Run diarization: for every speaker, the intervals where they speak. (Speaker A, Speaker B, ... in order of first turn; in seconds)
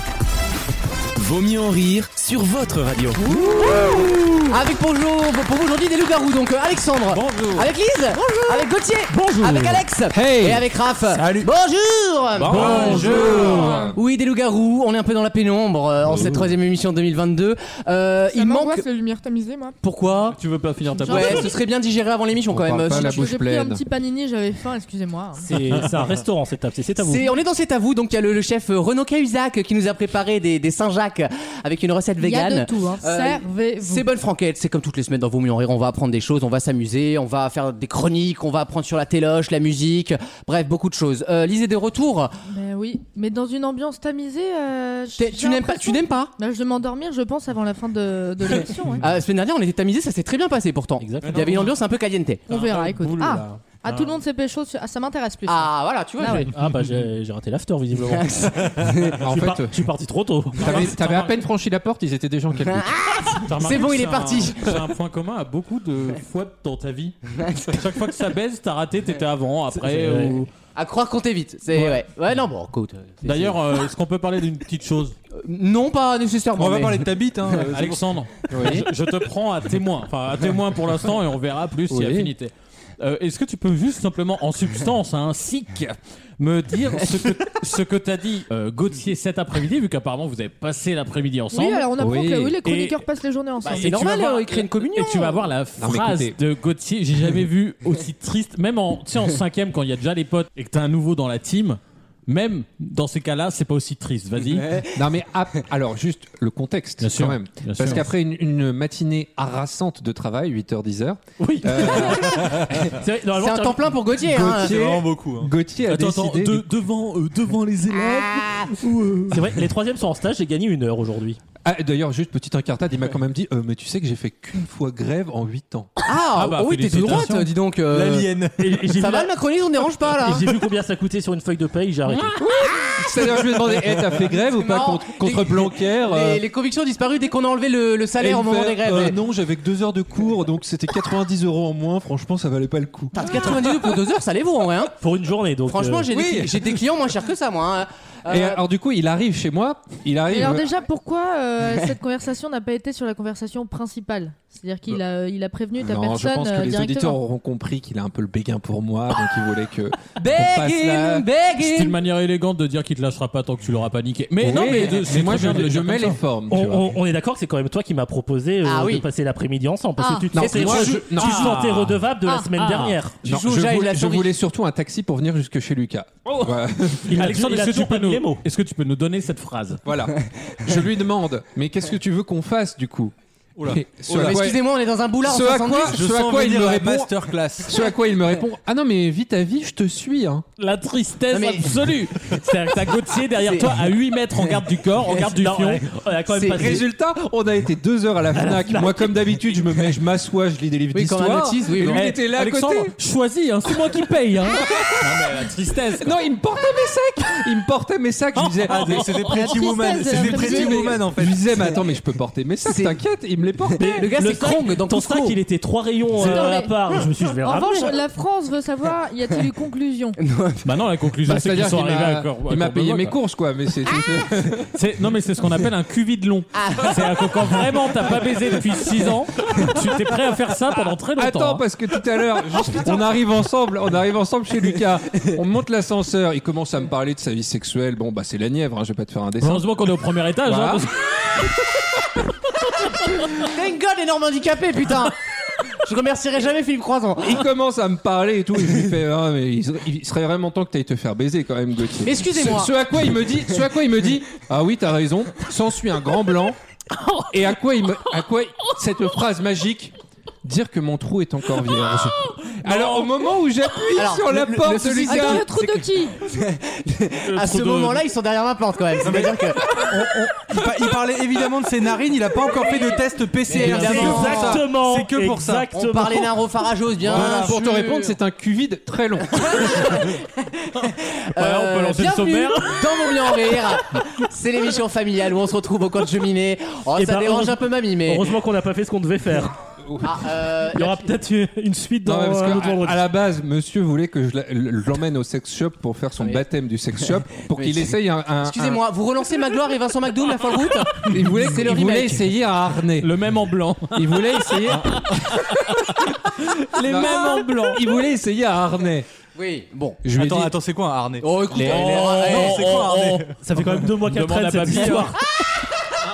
Speaker A: 1.1-3.2
Speaker B: 3.3-4.0, 7.1-7.4, 10.1-10.6, 12.5-14.0, 16.1-16.5, 22.5-23.8, 59.2-59.8, 60.6-62.9, 78.5-78.9, 81.9-82.3, 92.0-92.6, 95.8-96.3, 104.9-113.0, 114.2-116.7, 121.6-125.9, 132.2-136.4, 138.2-143.7, 146.1-146.5, 148.3-150.7, 155.8-161.2, 164.4-166.9, 170.3-172.0, 173.2-177.1, 179.8-183.1, 183.7-184.6, 185.2-190.4, 196.6-202.9, 204.5-205.2, 206.0-209.1, 210.1-214.1, 221.3-224.7, 231.2-239.7, 240.4-240.9, 247.2-256.6, 257.3-265.5, 277.1-279.9, 292.0-298.8, 301.0-303.1, 303.9-305.1, 306.8-309.1, 310.0-310.5
Speaker C: 3.4-18.8, 19.8-20.4, 21.1-23.3, 27.0-42.3, 45.2-46.3, 48.5-52.4, 55.5-56.5, 58.0-59.2, 62.7-64.6, 67.3-67.8, 70.7-73.6, 75.3-77.2, 93.6-95.5, 113.4-114.7, 126.0-128.3, 128.9-130.4, 134.5-139.2, 143.1-144.9, 145.7-148.6, 160.2-161.9, 168.6-169.0, 170.3-171.1, 173.2-174.3, 184.1-186.0, 191.3-191.8, 193.4-193.7, 196.3-196.8, 200.9-202.1, 212.6-212.9, 213.8-215.3, 220.2-220.6, 226.5-226.9, 243.3-245.1, 245.7-247.4, 252.0-252.8, 263.9-269.8, 272.5-274.6, 275.7-278.1, 279.4-288.2, 290.0-291.1, 297.4-302.3, 309.4-310.0, 311.2-312.6
Speaker D: 9.1-9.8, 12.4-13.6, 20.3-21.5, 52.5-54.1, 56.6-57.0, 60.6-61.4, 63.5-67.2, 67.7-70.5, 73.2-75.2, 77.6-91.9, 92.6-93.0, 93.6-104.8, 107.0-108.0, 115.9-119.4, 126.3-127.5, 161.6-166.2, 171.2-171.8, 172.6-173.0, 177.1-179.8, 190.6-195.9, 201.8-206.1, 208.3-209.7, 220.6-223.2, 224.7-231.6, 239.4-241.3, 257.0-257.3, 262.5-263.1, 267.3-268.0, 281.3-283.6, 303.0-307.8, 311.5-313.3, 314.1-315.1
Speaker E: 11.2-11.5, 76.6-78.1, 114.5-115.5, 127.9-128.8, 183.6-184.4, 185.9-187.7, 208.6-211.4, 269.0-275.7, 277.1-277.5, 310.1-313.3
Speaker F: 18.3-19.8, 20.9-21.5, 22.9-25.5, 32.2-34.0, 42.5-49.0, 52.5-56.5, 91.5-94.0, 150.3-157.2, 170.0-170.3, 209.3-211.0, 216.2-216.8, 217.4-220.2, 265.1-266.1
Speaker G: 25.4-27.3, 51.0-51.7, 56.5-58.5, 59.1-60.9, 69.8-70.4, 111.4-114.1, 119.3-121.4, 128.6-129.3, 130.2-132.4, 145.0-146.4, 166.5-173.2, 177.1-178.4, 195.0-196.9, 198.3-199.9, 213.8-218.0, 273.6-276.3, 286.9-289.5, 290.7-293.0, 313.4-315.2